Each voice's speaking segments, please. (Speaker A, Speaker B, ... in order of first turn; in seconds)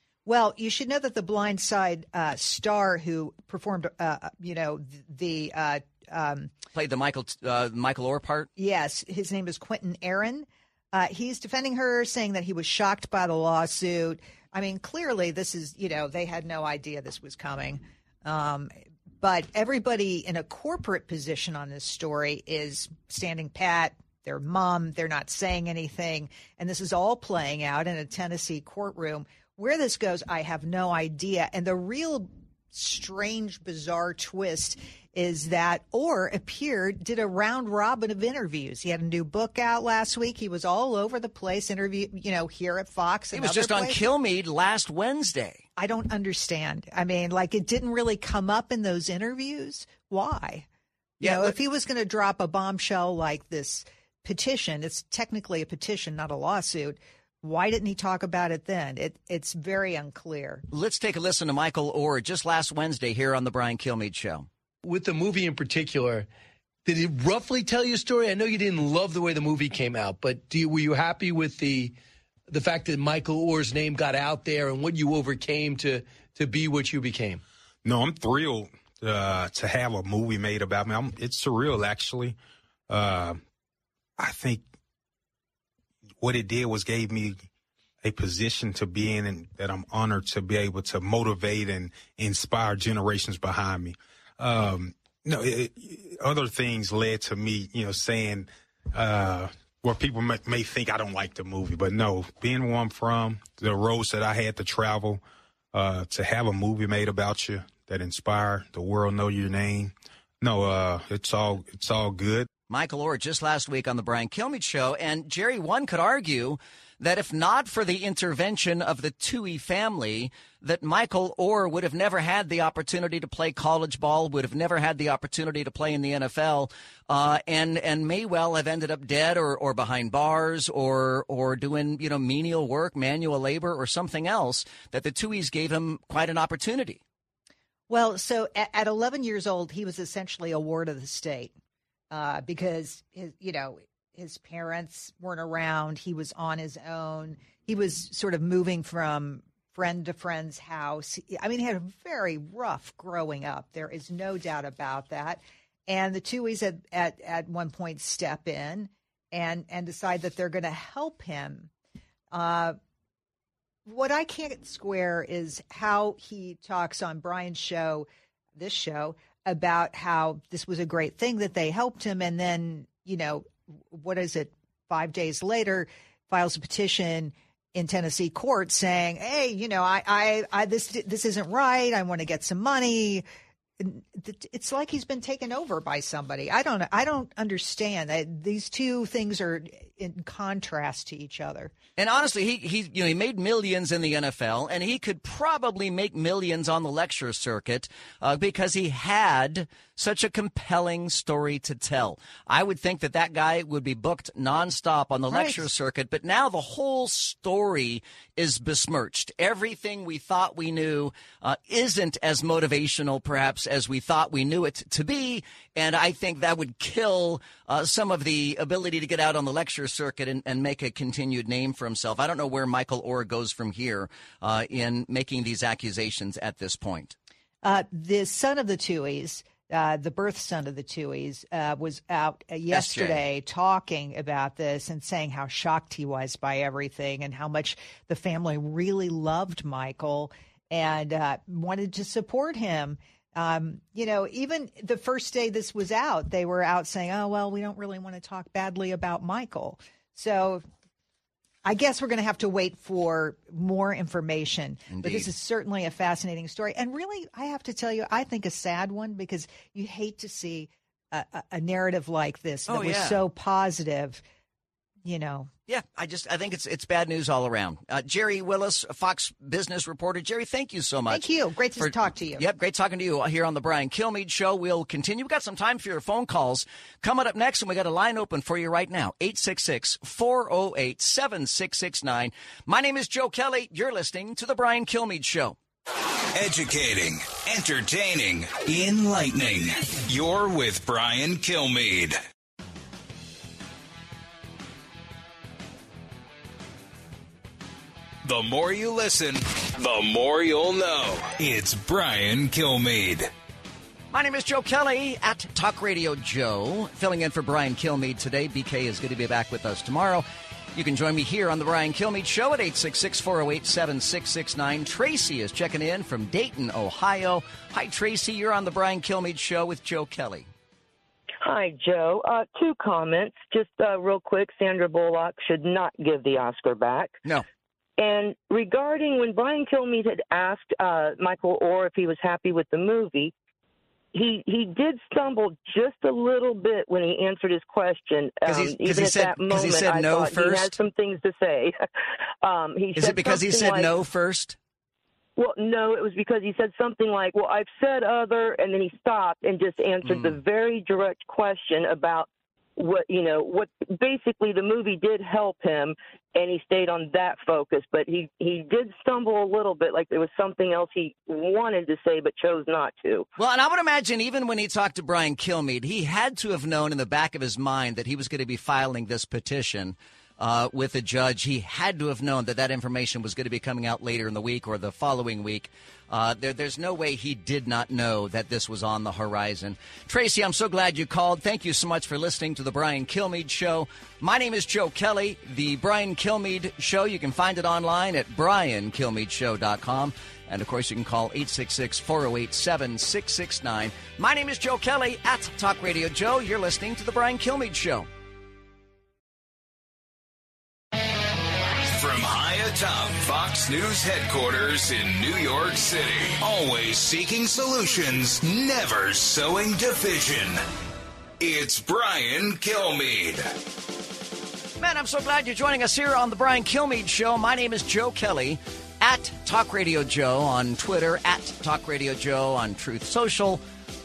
Speaker A: 0.2-6.5, 8.6-44.0, 45.8-50.6, 51.2-60.6, 137.9-141.5, 142.1-161.7, 162.3-162.8, 163.9-168.1, 168.6-183.2, 183.8-191.7, 205.3-205.7, 227.6-250.6, 251.6-264.2, 265.0-265.5, 271.1-272.4
Speaker B: 6.7-8.5, 43.3-45.6, 51.2-51.6, 60.7-64.5, 112.7-137.0, 192.0-227.2, 232.7-233.2, 254.9-255.3, 262.7-263.2, 265.7-285.6, 304.1-320.5, 338.4-340.7, 342.9-344.6, 350.0-350.4, 363.4-398.1, 414.8-423.6
Speaker C: 64.8-66.3, 66.9-71.9, 72.5-77.4
Speaker D: 77.8-82.3, 82.9-83.4, 84.2-84.6, 86.2-87.5, 88.0-105.2, 105.7-112.5
Speaker E: 286.3-292.2, 298.2-303.3, 401.9-410.6, 411.4-413.5
Speaker F: 321.4-327.2, 328.0-333.3, 334.1-341.8, 342.4-343.9, 345.4-363.3